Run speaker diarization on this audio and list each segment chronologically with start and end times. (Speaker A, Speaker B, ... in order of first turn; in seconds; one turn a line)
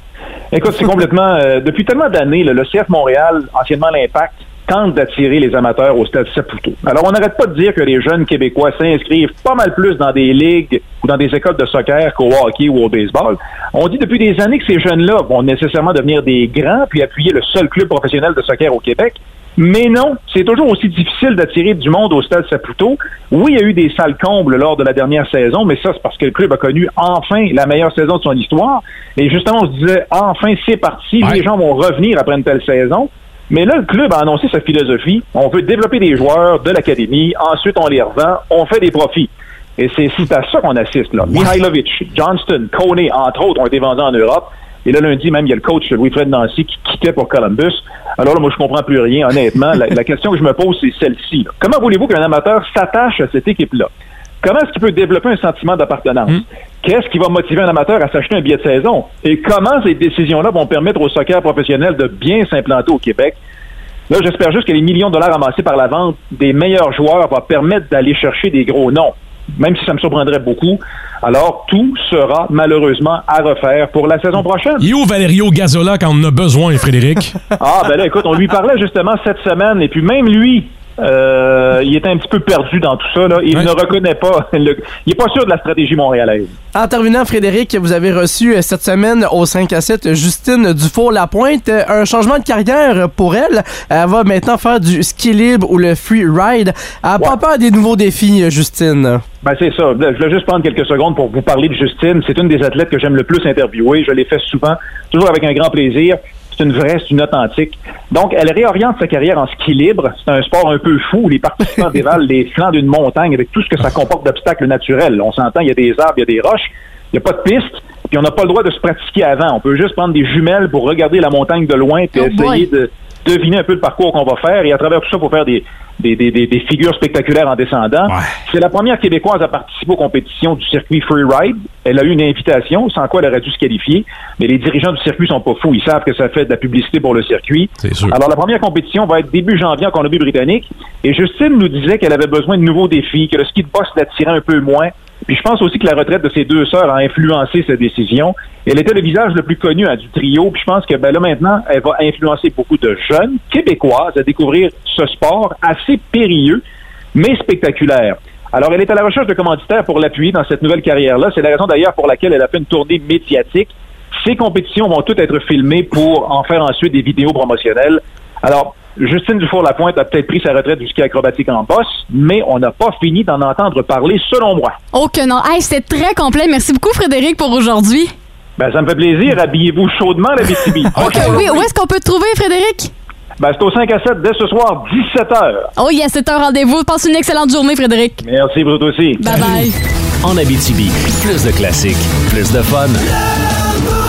Speaker A: 0.5-53.9
Speaker A: 54.4-63.4
Speaker A: 64.1-74.8
Speaker B: 74.8-77.3
Speaker A: 77.6-86.5
Speaker C: 86.7-99.2
Speaker A: 99.4-156.6
Speaker D: 122.2-122.6
Speaker B: 128.1-128.4
Speaker B: 137.8-138.1
Speaker A: 157.1-174.7
Speaker D: 174.9-178.1
Speaker A: 178.6-181.4
Speaker D: 180.9-182.9
Speaker B: 181.0-181.5
Speaker A: 183.4-185.7
Speaker D: 185.8-188.2
Speaker A: 188.2-189.3
Speaker D: 189.2-189.8
Speaker E: 190.2-193.0